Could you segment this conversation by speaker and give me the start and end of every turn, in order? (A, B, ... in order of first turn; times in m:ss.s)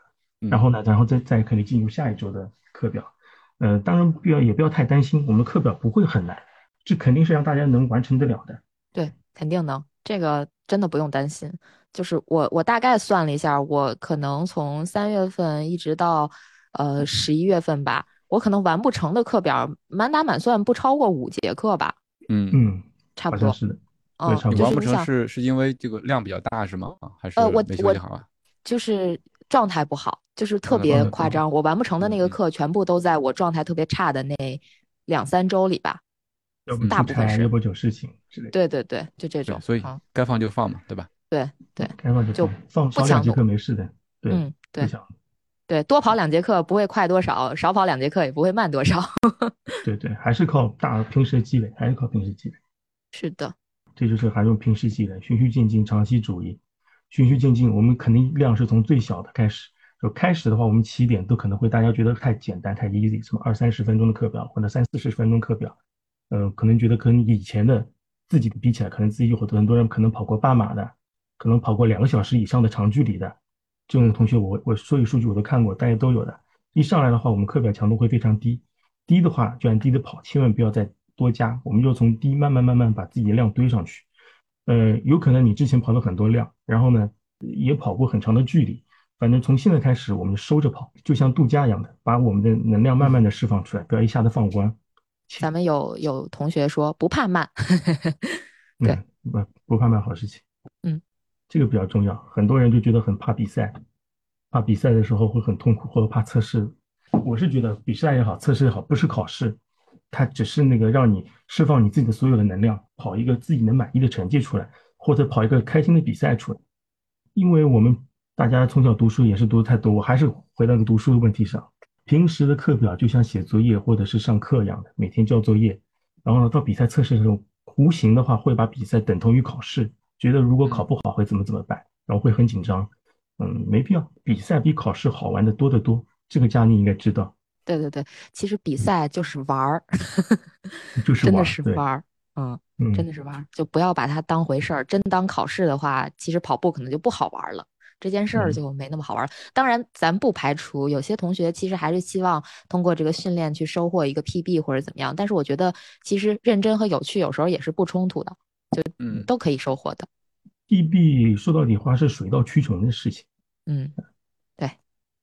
0:00.5-0:08.6 A
0:08.9-0:22.0 B
0:22.3-0:22.6 C
0:22.5-0:24.8 A
0:23.2-0:23.6 B
0:24.2-0:25.1 B
0:24.5-0:28.2 C
0:27.4-0:28.0 B
0:28.6-0:36.0 B
0:30.7-0:31.1 C
0:30.9-0:31.4 A
0:32.0-0:32.4 C
0:36.7-0:38.5 A
0:36.8-0:37.5 B
0:38.5-0:40.0 B
0:39.5-0:41.1 C
0:41.3-0:43.4 B
0:41.8-0:45.0 A
0:44.3-0:44.9 B
0:45.7-0:49.7 B
0:49.8-0:52.6 A
0:53.1-0:53.5 B
0:54.0-0:56.6 A
0:57.1-1:05.8 A
1:06.3-1:13.4 A
1:13.9-1:24.0 A
1:24.6-1:34.8 A
1:35.4-1:39.0 B
1:38.8-1:40.4 A
1:41.5-1:43.8 A
1:44.5-1:49.6 A
1:50.1-1:56.6 A
1:57.3-2:17.3 A
2:17.6-2:20.4 B
2:21.0-2:21.8 A
2:21.2-2:40.1 B
2:22.8-2:23.0 A
2:28.3-2:28.6 A
2:39.0-2:39.3 C
2:40.7-2:43.3 A
2:43.7-2:43.9 B